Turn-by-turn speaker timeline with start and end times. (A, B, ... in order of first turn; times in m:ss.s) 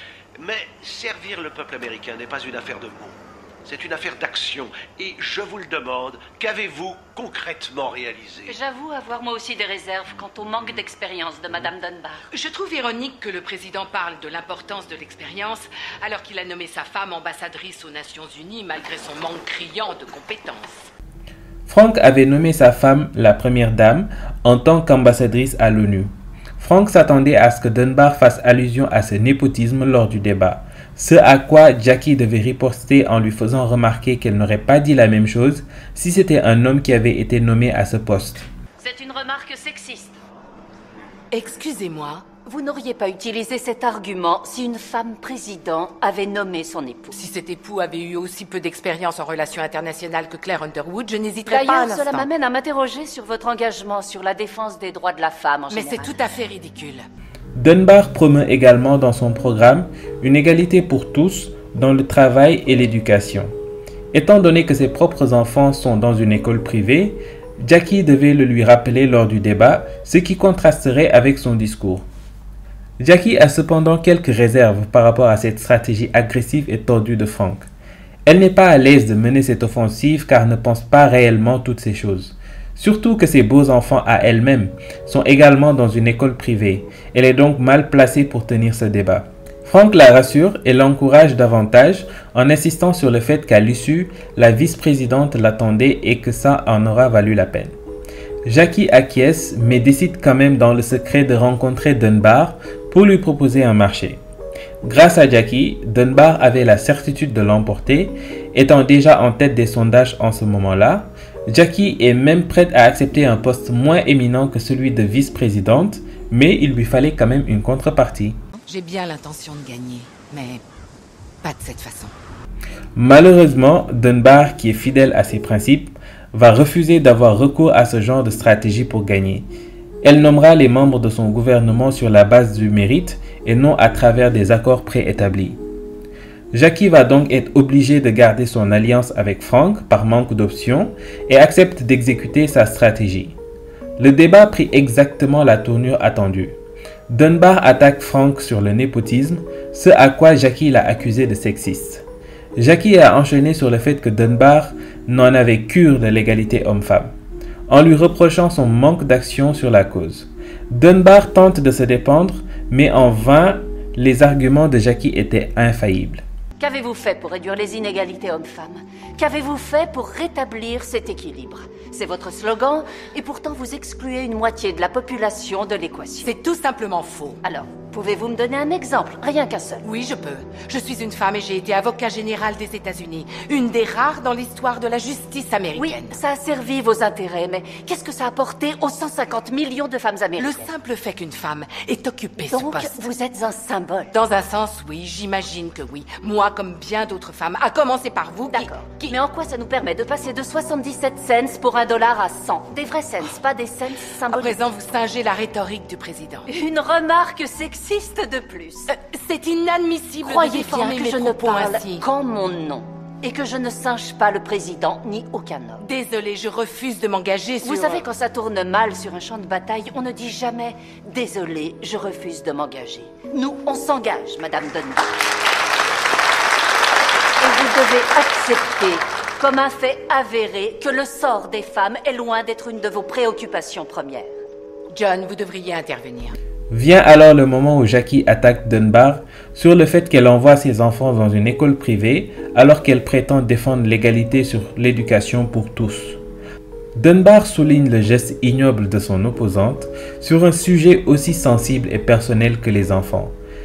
0:00.4-0:08.6 A
0:08.5-0:12.2 B
0:12.3-0:20.9 C
0:21.7-0:38.4 D
0:38.8-0:40.2 B
0:41.3-0:42.3 C
0:42.4-0:47.2 B
0:47.1-0:52.3 C
0:51.5-0:56.2 B
0:55.7-0:57.1 C
0:57.6-1:03.5 D
1:04.1-1:12.0 D
1:13.0-1:17.7 D
1:18.3-1:37.7 D
1:38.4-1:44.2 D
1:44.8-1:58.4 D
1:58.7-2:00.6 C
2:01.4-2:02.2 C
2:03.0-2:09.5 D
2:10.0-2:15.6 D
2:16.5-2:23.4 D
2:24.0-2:26.6 D
2:27.1-2:32.0 D
2:32.6-2:37.1 D
2:37.7-2:46.2 D
2:46.6-2:56.3 B
2:56.2-2:57.4 C
2:57.4-2:59.8 B
2:59.8-3:06.2 C
3:05.8-3:10.7 B
3:10.4-3:13.1 C
3:12.4-3:14.1 B
3:14.1-3:19.2 C
3:18.5-3:24.6 B
3:24.2-3:26.5 C
3:26.5-3:28.9 B
3:28.9-3:32.1 C
3:30.2-3:35.8 B
3:35.8-3:38.0 C
3:37.6-3:45.2 B
3:47.4-3:54.3 B
3:54.9-3:56.4 C
3:56.7-4:06.2 D
4:07.0-4:13.3 D